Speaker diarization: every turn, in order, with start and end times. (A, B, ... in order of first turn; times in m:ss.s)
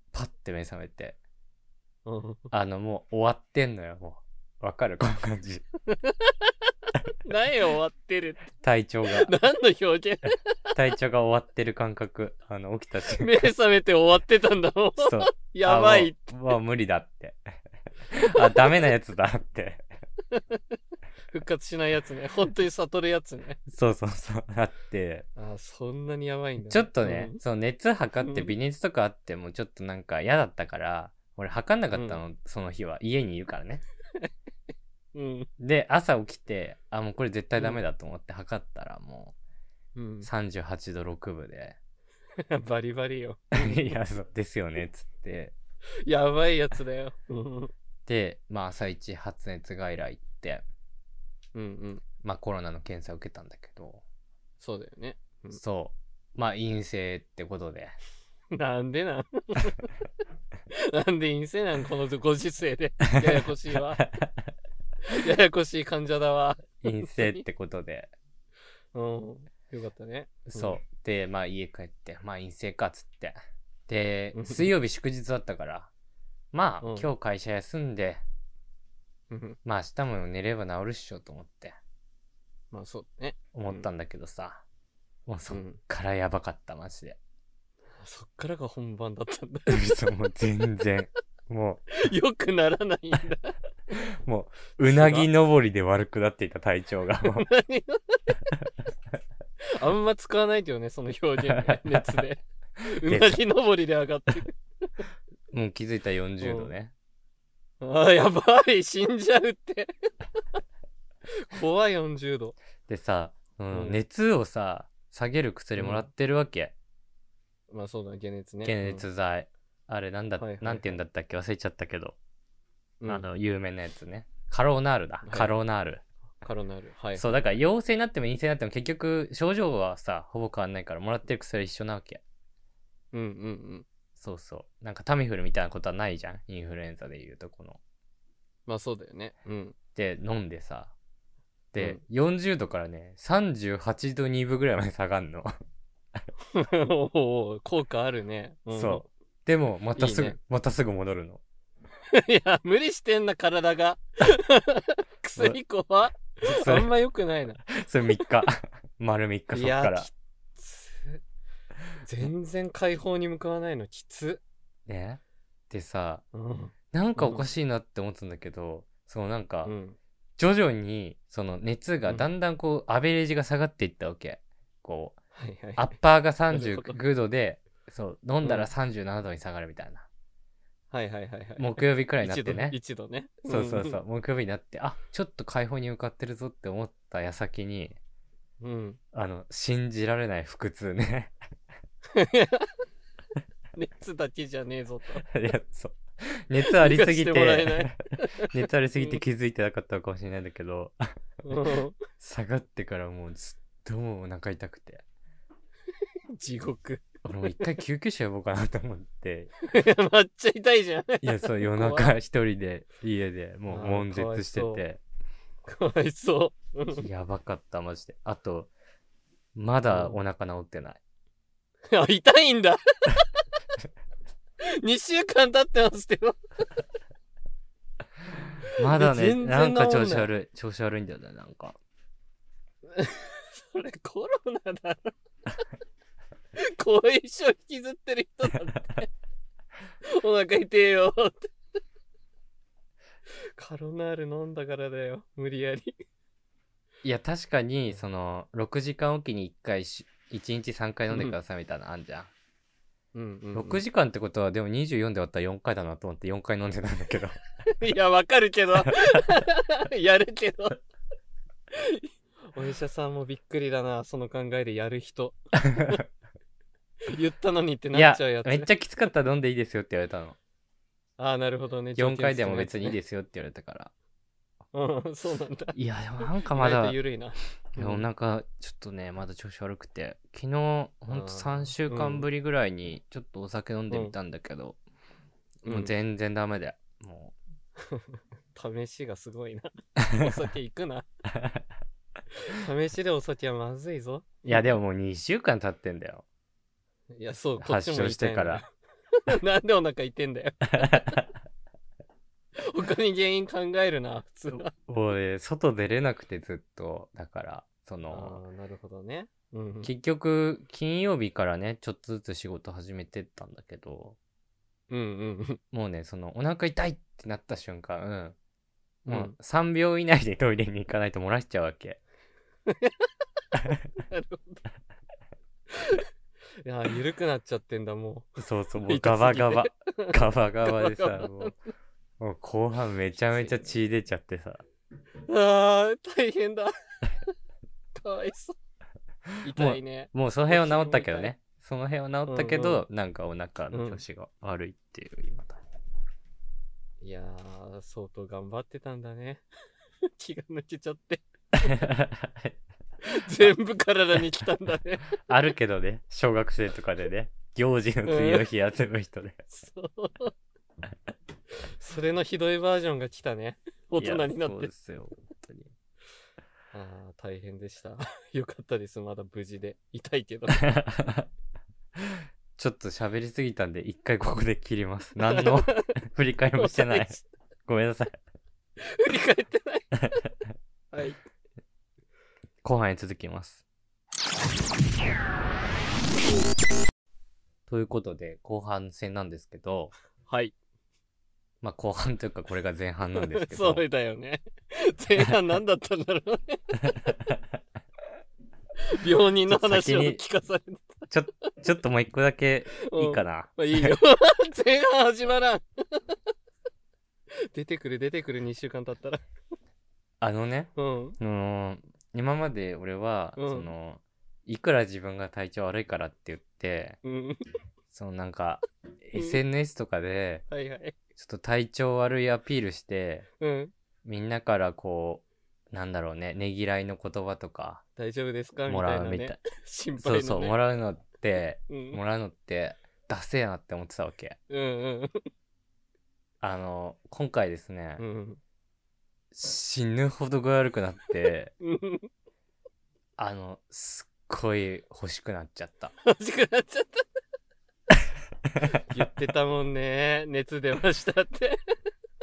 0:00.1-0:01.2 A
0:02.1-0:02.4 B
0:02.5-0:05.6 A
0:06.0-0:06.5 B
0:07.2-0:08.5 B
0:08.6-0:09.3 A
0:09.2-0:10.4 B
0:10.8-0:13.5 A
0:13.1-0:16.1 B
0:15.0-0:17.4 A
0:18.1-0:19.9 A
0:18.2-0:18.9 B
0:20.3-0:20.6 B
0:21.3-0:23.6 B
0:23.7-0:25.3 A
0:25.4-0:27.4 B
0:26.7-0:33.8 A
0:28.2-0:28.5 B
0:31.9-0:32.2 B
0:35.1-0:35.5 B
0:35.6-0:39.4 A
0:37.6-0:37.8 B
0:40.0-0:40.3 B
0:40.2-0:41.8 A
0:42.4-0:44.0 B
0:43.6-0:45.6 A
0:46.0-0:47.7 B
0:48.1-0:50.7 A
0:51.5-0:52.0 B
0:52.2-0:54.0 A
0:54.6-0:55.6 B
0:55.5-0:58.0 A
0:58.5-0:59.9 B
1:00.7-1:04.0 B
1:03.7-1:04.3 A
1:05.0-1:07.4 B
1:06.8-1:08.1 A
1:08.9-1:10.8 B
1:10.5-1:15.9 A
1:14.3-1:14.7 B
1:16.5-1:18.2 A
1:16.8-1:17.1 B
1:19.3-1:19.6 B
1:19.6-1:21.8 A
1:22.7-1:23.9 B
1:23.5-1:24.6 A
1:25.3-1:27.2 A
1:25.5-1:25.8 B
1:28.0-1:30.0 B
1:29.7-1:31.9 A
1:32.0-1:33.6 B
1:34.2-1:37.5 A
1:34.8-1:35.3 B
1:37.2-1:38.2 B
1:39.7-1:44.6 B
1:41.5-1:42.2 A
1:43.0-1:43.4 A
1:45.5-1:46.9 A
1:46.4-1:46.7 B
1:47.8-1:49.9 B
1:51.4-1:52.6 B
1:52.9-1:56.7 A
1:53.7-1:54.0 B
1:55.8-1:56.1 B
1:57.7-1:59.1 B
1:58.6-2:02.2 A
2:00.4-2:01.0 B
2:03.0-2:03.3 B
2:03.1-2:06.0 A
2:05.2-2:05.5 B
2:06.4-2:07.3 B
2:07.2-2:12.2 A
2:13.1-2:13.9 B
2:14.2-2:17.8 A
2:18.7-2:19.8 B
2:20.0-2:20.9 A
2:21.7-2:25.5 A
2:26.5-2:29.1 B
2:28.7-2:31.4 A
2:30.0-2:30.4 B
2:32.1-2:37.7 B
2:36.4-2:36.9 A
2:37.7-2:40.1 A
2:39.5-2:41.2 B
2:42.0-2:44.4 B
2:44.9-2:46.2 A
2:46.3-2:47.5 B
2:46.9-2:49.7 A
2:49.6-2:50.0 B
2:50.4-2:55.2 A
2:55.4-2:55.9 B
2:55.8-3:00.1 A
2:56.5-2:57.0 B
2:58.4-2:58.7 B
3:00.9-3:04.0 B
3:01.6-3:02.8 A
3:03.5-3:08.0 A
3:08.6-3:09.0 B
3:09.1-3:11.3 A
3:12.2-3:12.7 B
3:13.8-3:15.3 B
3:15.3-3:18.0 A
3:16.6-3:18.5 B
3:18.5-3:21.6 A
3:21.4-3:22.0 B
3:22.2-3:25.0 A
3:26.4-3:27.0 B
3:27.2-3:29.5 A
3:29.7-3:32.1 B
3:31.2-3:35.0 A
3:33.7-3:34.8 B
3:35.7-3:37.0 B
3:37.0-3:38.7 A
3:39.6-3:41.0 A
3:39.9-3:40.2 B
3:41.9-3:43.2 B
3:44.6-3:46.4 B
3:48.8-3:51.8 A
3:48.9-3:50.3 B
3:52.9-3:55.1 B
3:56.6-3:59.1 B
4:00.1-4:01.5 B
4:03.6-4:06.0 B
4:07.0-4:12.3 A
4:11.1-4:11.4 B
4:13.1-4:13.8 B
4:13.5-4:17.4 A
4:17.8-4:20.8 B
4:21.7-4:26.0 B
4:27.1-4:28.7 B
4:27.9-4:30.4 A
4:31.2-4:33.0 B
4:32.0-4:33.9 A
4:34.7-4:35.8 B
4:35.8-4:37.0 A
4:36.5-4:38.1 B
4:37.8-4:44.8 A
4:41.1-4:42.3 B
4:43.9-4:44.2 B
4:45.6-4:45.9 B
4:45.6-4:47.4 A
4:47.9-4:51.1 B
4:52.4-4:54.8 B
4:54.5-4:56.2 A
4:57.1-4:58.7 B
4:57.6-4:58.6 A
4:59.3-5:01.2 B
5:02.6-5:04.7 B
5:04.5-5:08.4 A
5:08.1-5:09.9 B
5:09.8-5:14.2 A
5:14.9-5:15.6 B
5:15.7-5:18.4 A
5:19.0-5:19.4 B
5:19.1-5:22.0 A
5:22.7-5:23.1 B
5:24.0-5:24.6 B
5:25.7-5:26.0 B
5:26.6-5:31.5 B
5:28.4-5:31.5 A
5:32.2-5:34.6 A
5:33.3-5:33.8 B
5:35.3-5:36.7 B
5:38.0-5:38.6 B
5:39.4-5:41.3 B
5:39.5-5:45.6 A
5:42.3-5:42.8 B
5:43.7-5:44.0 B
5:47.0-5:49.4 B
5:50.2-5:51.8 B
5:51.7-5:52.5 A
5:53.0-5:55.1 B
5:55.3-5:59.4 A
5:58.1-5:58.4 B
5:59.5-6:00.3 B
6:01.7-6:04.7 B
6:04.0-6:05.7 A
6:06.7-6:10.7 B
6:10.5-6:11.3 A
6:12.1-6:18.2 A
6:15.3-6:15.9 B
6:16.6-6:17.3 B
6:18.8-6:19.9 B
6:20.9-6:21.2 B
6:22.6-6:23.6 A
6:27.7-6:30.0 A
6:30.3-6:30.6 B
6:31.6-6:33.8 A
6:33.2-6:37.1 B
6:38.9-6:41.1 B
6:39.5-6:40.2 A
6:41.1-6:44.0 A
6:42.8-6:46.2 B
6:47.5-6:49.2 B
6:50.2-6:57.0 A
6:50.8-6:51.2 B
6:53.4-6:53.7 B
6:57.0-6:57.5 B
6:57.9-7:00.4 A
7:00.5-7:00.9 B
7:01.2-7:03.3 A
7:03.4-7:03.7 B
7:04.0-7:07.8 A
7:08.0-7:10.6 B
7:08.7-7:09.4 A
7:10.0-7:14.4 A
7:11.7-7:12.0 B
7:14.5-7:15.2 B
7:16.4-7:18.0 A
7:18.0-7:18.4 B
7:19.3-7:21.5 A
7:21.6-7:22.1 B
7:23.2-7:25.9 A
7:26.0-7:27.0 B
7:28.7-7:31.6 B